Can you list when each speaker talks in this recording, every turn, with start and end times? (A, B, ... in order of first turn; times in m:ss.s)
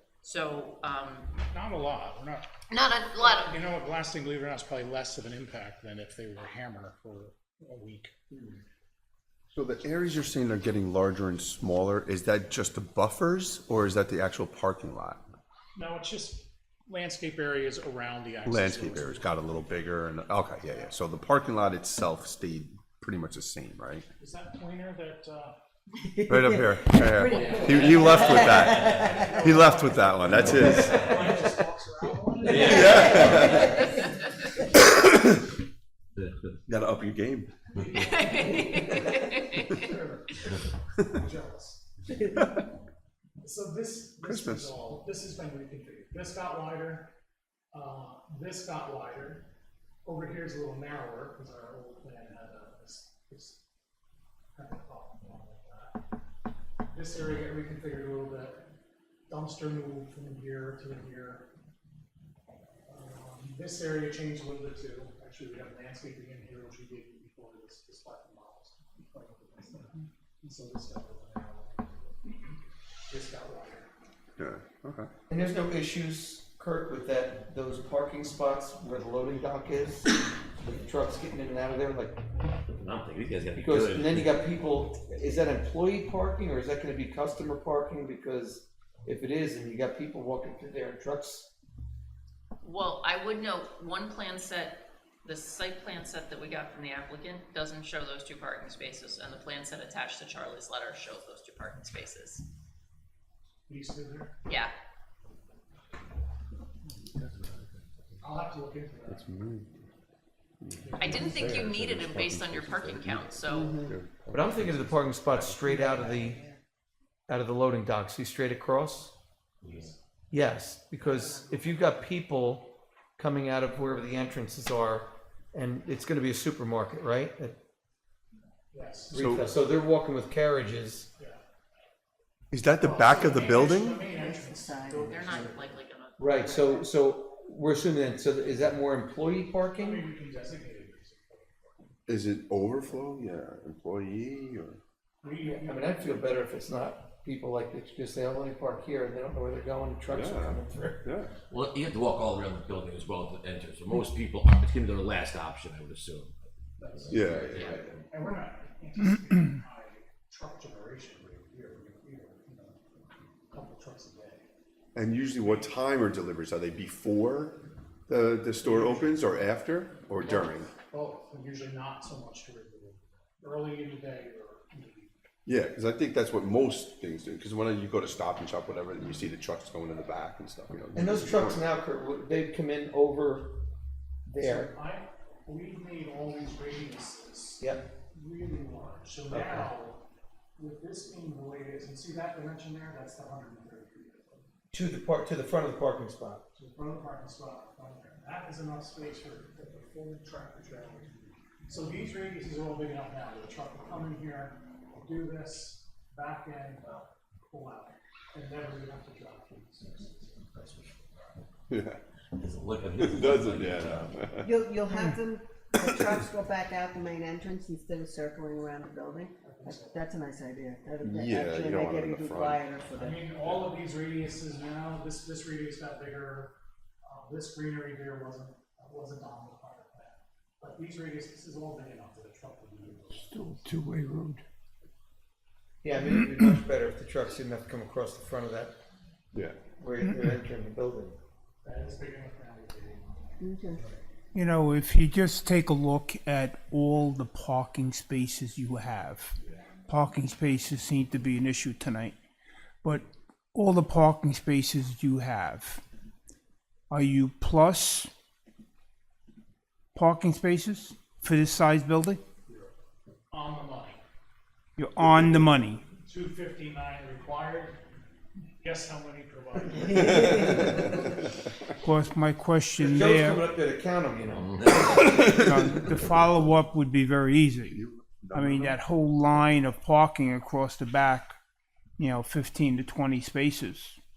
0:00.2-0:01.4 A
0:01.5-0:02.5 B
0:02.7-0:03.6 A
0:03.2-0:08.1 B
0:09.5-0:15.2 C
0:15.8-0:19.4 B
0:18.5-0:24.1 C
0:24.2-0:25.6 B
0:26.1-0:29.3 D
0:26.3-0:31.1 C
0:27.3-0:29.6 E
0:29.3-0:33.0 B
0:30.3-0:31.3 E
0:32.4-0:33.9 E
0:32.6-0:33.8 C
0:32.6-0:33.2 D
0:34.8-0:35.3 C
0:36.2-0:36.6 E
0:36.7-0:37.5 C
0:37.8-0:41.9 B
0:38.1-0:39.9 A
0:43.4-0:47.1 B
0:44.2-0:44.7 C
0:47.7-0:49.5 B
0:50.0-0:53.6 B
0:54.5-0:56.0 B
0:56.9-0:58.7 B
0:59.3-1:01.5 B
1:02.9-1:12.6 B
1:13.1-1:13.9 B
1:14.4-1:15.1 C
1:15.3-1:22.2 F
1:22.8-1:24.4 E
1:23.6-1:31.5 F
1:32.6-1:42.4 A
1:43.7-1:44.3 B
1:44.5-1:44.7 A
1:48.2-1:49.3 B
1:49.1-1:49.9 C
1:50.6-1:55.5 C
1:50.8-1:51.2 B
1:51.0-1:53.9 A
1:53.5-1:53.9 D
1:54.3-1:56.4 F
1:55.6-1:56.5 D
1:57.3-1:59.2 F
1:59.6-1:59.9 E
1:59.6-2:00.0 B
2:00.3-2:07.6 F
2:01.0-2:01.9 B
2:08.7-2:09.8 B
2:09.1-2:11.1 F
2:09.2-2:09.5 C
2:11.2-2:11.4 B
2:12.5-2:14.0 C
2:12.8-2:15.5 B
2:14.0-2:15.4 D
2:15.0-2:16.4 A
2:16.2-2:20.0 F
2:16.3-2:16.9 D
2:19.7-2:21.9 B
2:22.1-2:24.8 C
2:25.2-2:26.4 B
2:25.4-2:31.1 F
2:30.1-2:31.3 C
2:31.5-2:38.1 E
2:36.8-2:42.8 B
2:37.1-2:37.8 C
2:43.5-2:44.4 B
2:45.0-2:50.7 C
2:45.4-2:45.8 B
2:48.6-2:49.3 B
2:50.2-2:55.1 B
2:55.5-3:01.6 C
3:01.0-3:03.6 F
3:04.3-3:04.7 F
3:04.4-3:10.0 B
3:07.6-3:07.9 F
3:09.3-3:09.7 F
3:10.6-3:14.5 B
3:14.7-3:16.4 F
3:16.6-3:31.3 B
3:30.5-3:31.3 E
3:31.7-3:32.0 C
3:32.4-3:34.2 E
3:33.0-3:34.5 C
3:34.4-3:43.2 D
3:34.9-3:35.2 G
3:39.4-3:40.1 B
3:41.0-3:42.6 C
3:43.0-3:53.6 B
3:53.2-3:54.4 G
3:55.8-3:58.8 F
3:59.8-4:01.2 F
4:01.6-4:03.2 B
4:03.4-4:03.8 D
4:04.3-4:09.4 G
4:09.9-4:12.2 G
4:12.8-4:15.8 G
4:16.9-4:18.1 G
4:20.0-4:22.2 G
4:23.3-4:24.0 B
4:24.8-4:25.8 G
4:26.0-4:27.8 B
4:28.6-4:31.0 B
4:31.8-4:33.5 G
4:32.8-4:35.4 F
4:34.3-4:34.9 E
4:34.9-4:41.4 G
4:37.7-4:38.8 C
4:42.0-4:44.0 G